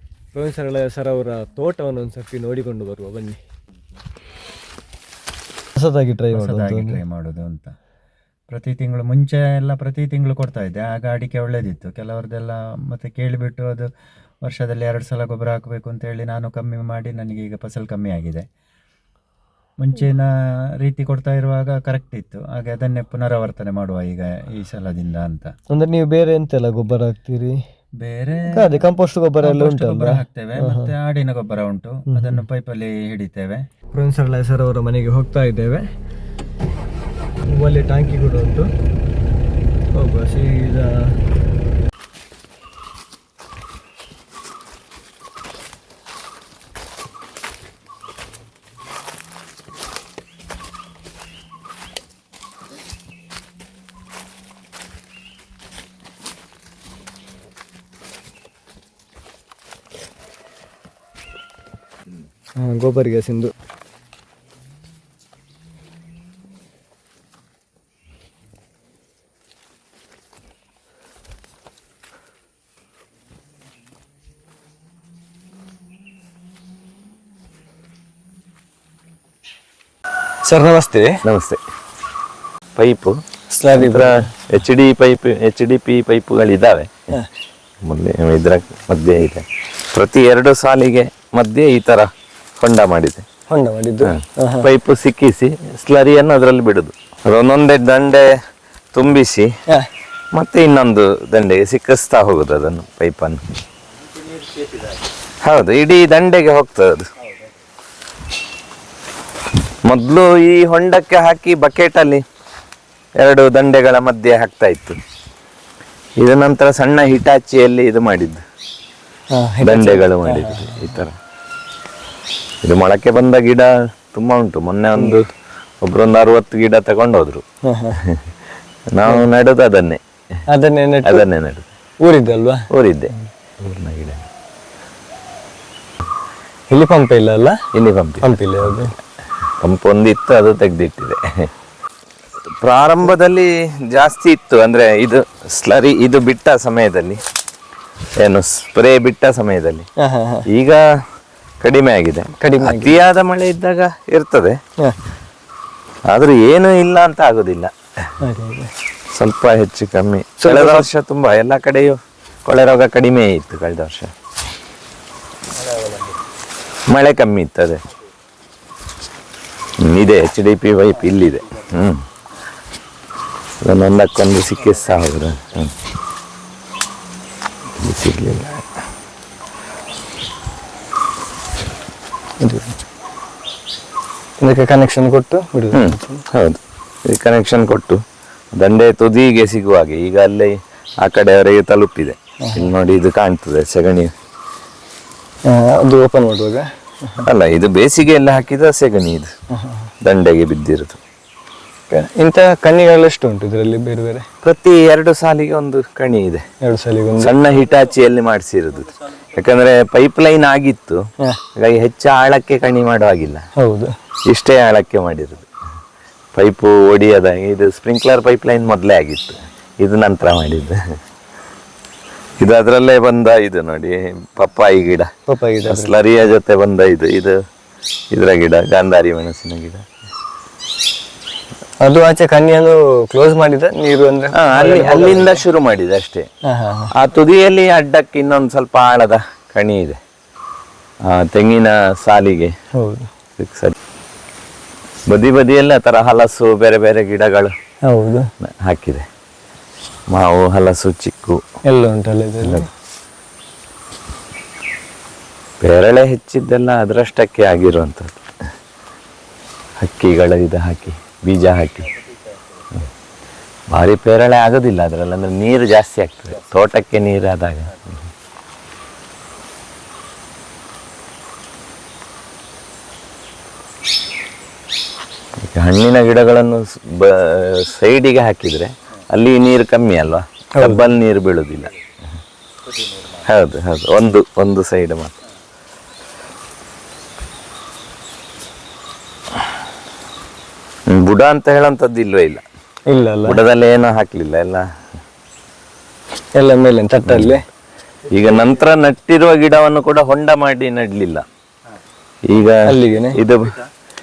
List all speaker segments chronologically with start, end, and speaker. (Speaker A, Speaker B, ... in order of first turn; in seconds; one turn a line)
Speaker A: 0.3-3.4
Speaker A: 5.8-7.0
Speaker B: 6.3-7.7
Speaker B: 8.5-13.9
Speaker B: 14.4-18.5
Speaker B: 19.8-20.3
Speaker B: 20.8-25.5
Speaker A: 25.7-27.6
Speaker B: 28.0-28.7
Speaker A: 28.5-30.9
Speaker B: 29.4-33.7
Speaker A: 32.1-32.4
Speaker A: 33.9-35.9
Speaker A: 37.5-38.7
Speaker A: 39.9-41.2
Speaker A: 62.6-63.5
Speaker A: 80.5-81.2
Speaker C: 81.2-81.6
Speaker C: 82.8-83.2
Speaker A: 83.5-84.3
Speaker C: 83.8-86.9
Speaker C: 87.8-92.1
Speaker C: 92.6-93.2
Speaker A: 93.5-94.7
Speaker C: 94.1-98.3
Speaker C: 98.9-99.5
Speaker C: 100.3-103.4
Speaker C: 105.4-107.1
Speaker C: 109.9-112.2
Speaker C: 113.2-115.0
Speaker C: 116.2-118.4
Speaker A: 119.3-120.8
Speaker C: 119.6-121.2
Speaker C: 122.6-125.2
Speaker C: 125.8-127.4
Speaker A: 127.7-128.0
Speaker C: 128.9-130.0
Speaker A: 130.5-131.2
Speaker C: 131.1-131.7
Speaker A: 132.0-132.7
Speaker C: 132.7-134.2
Speaker A: 136.7-137.6
Speaker C: 137.7-138.9
Speaker A: 138.2-138.9
Speaker C: 139.6-141.2
Speaker C: 142.6-147.2
Speaker C: 148.2-149.9
Speaker A: 150.0-150.5
Speaker C: 150.5-150.8
Speaker C: 151.6-154.6
Speaker A: 152.4-153.0
Speaker C: 156.1-158.1
Speaker A: 158.2-158.7
Speaker C: 159.2-164.1
Speaker A: 160.4-160.9
Speaker A: 165.7-165.9
Speaker C: 166.9-167.8
Speaker C: 169.8-172.0
Speaker C: 173.6-175.7
Speaker C: 177.8-178.6
Speaker A: 182.4-182.7
Speaker A: 184.4-186.2
Speaker C: 185.7-188.0
Speaker C: 188.5-194.1
Speaker A: 192.4-192.7
Speaker A: 195.5-197.2
Speaker C: 197.2-199.3
Speaker A: 199.5-199.9
Speaker C: 200.0-201.0
Speaker A: 201.9-204.3
Speaker C: 204.4-206.4
Speaker A: 206.6-207.4
Speaker C: 207.2-211.0
Speaker C: 211.6-213.4
Speaker A: 213.6-213.9
Speaker C: 214.3-215.5
Speaker C: 216.3-220.8
Speaker C: 222.4-225.1
Speaker A: 225.3-225.9
Speaker C: 225.7-227.4
Speaker C: 228.1-229.8
Speaker A: 231.8-235.4
Speaker C: 234.4-236.3
Speaker A: 236.4-236.9
Speaker C: 237.0-240.0
Speaker C: 241.1-242.5
Speaker A: 242.8-243.1
Speaker C: 243.4-243.8
Speaker C: 245.1-247.5
Speaker A: 247.9-248.3
Speaker C: 248.4-249.1
Speaker C: 250.1-251.4
Speaker A: 251.7-252.7
Speaker C: 255.6-258.2
Speaker C: 259.8-261.9
Speaker C: 263.7-267.7
Speaker C: 275.5-281.7
Speaker A: 280.6-280.9
Speaker C: 283.3-285.1
Speaker C: 290.9-292.4
Speaker A: 292.9-293.4
Speaker C: 293.3-294.6
Speaker A: 296.4-297.4
Speaker C: 297.1-297.4
Speaker C: 298.1-301.2
Speaker C: 302.3-302.6
Speaker A: 302.7-303.2
Speaker C: 303.1-303.6